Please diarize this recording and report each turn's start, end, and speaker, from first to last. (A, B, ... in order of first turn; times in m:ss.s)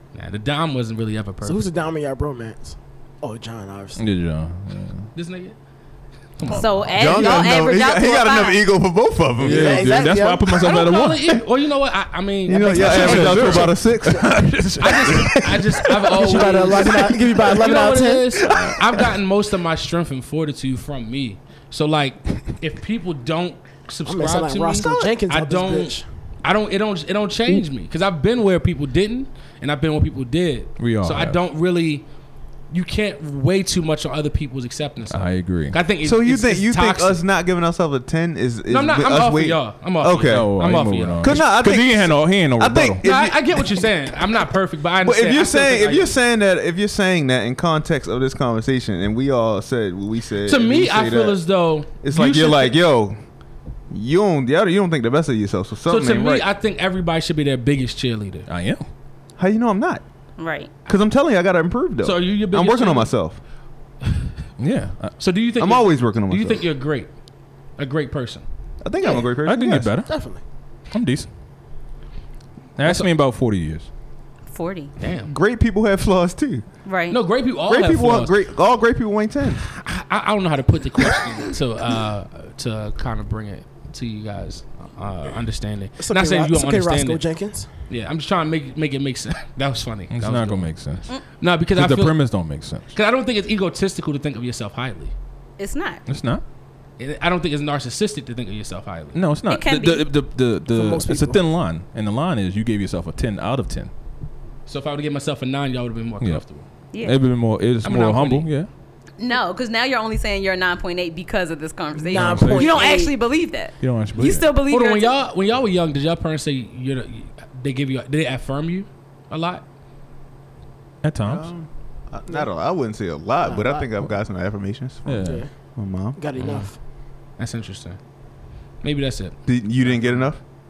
0:00.1-0:01.6 A
0:01.4-0:04.0 B
0:04.0-0:05.1 C
0:05.1-0:05.6 A
0:06.4-0:06.8 A
0:06.5-0:08.6 D
0:06.9-0:10.1 E
0:09.4-0:11.4 C
0:09.4-0:10.6 B
0:10.6-0:13.7 A
0:12.5-0:14.3 E
0:12.6-0:13.5 B
0:12.7-0:16.3 C
0:14.8-0:32.0 A
0:16.1-0:18.6 B
0:24.0-0:26.0 B
0:24.8-0:25.2 E
0:30.8-0:31.4 C
0:32.7-0:37.2 A
0:35.1-0:35.9 C
0:36.0-0:43.9 E
0:38.7-0:41.5 A
0:40.2-0:43.0 C
0:43.0-0:46.1 A
0:45.0-0:53.2 E
0:50.4-0:52.8 A
0:53.9-0:56.5 E
0:55.9-0:58.5 A
0:58.5-0:58.8 C
0:59.4-1:00.0 E
1:00.4-1:00.7 D
1:00.8-1:03.4 E
1:02.0-1:03.1 A
1:04.6-1:05.2 C
1:05.2-1:07.1 A
1:05.6-1:06.7 E
1:07.8-1:08.4 A
1:08.8-1:09.9 E
1:09.4-1:10.2 C
1:10.0-1:10.4 B
1:10.9-1:11.3 C
1:12.8-1:13.9 C
1:14.5-1:14.9 D
1:15.0-1:15.3 A
1:15.3-1:16.7 E
1:16.8-1:17.2 D
1:17.1-1:18.3 A
1:17.6-1:19.6 E
1:19.7-1:27.2 A
1:26.0-1:27.7 B
1:27.9-1:30.7 A
1:30.1-1:31.2 C
1:31.4-1:32.2 A
1:31.7-1:32.9 C
1:32.9-1:35.1 A
1:35.6-1:36.0 D
1:36.0-1:36.4 C
1:37.0-1:39.2 A
1:39.1-1:43.9 C
1:39.5-1:40.1 D
1:40.7-1:41.4 B
1:44.7-1:46.7 A
1:46.9-1:47.2 D
1:47.0-1:48.7 C
1:47.8-1:48.5 A
1:49.2-1:55.1 D
1:52.0-1:53.1 B
1:52.1-1:53.1 C
1:53.8-1:54.5 C
1:54.7-1:59.6 A
2:01.0-2:01.5 C
2:01.2-2:06.6 E
2:03.4-2:03.9 B
2:05.0-2:05.5 C
2:05.2-2:05.5 B
2:06.1-2:06.8 B
2:06.4-2:06.6 A
2:07.4-2:08.0 A
2:08.8-2:10.3 A
2:09.5-2:10.4 E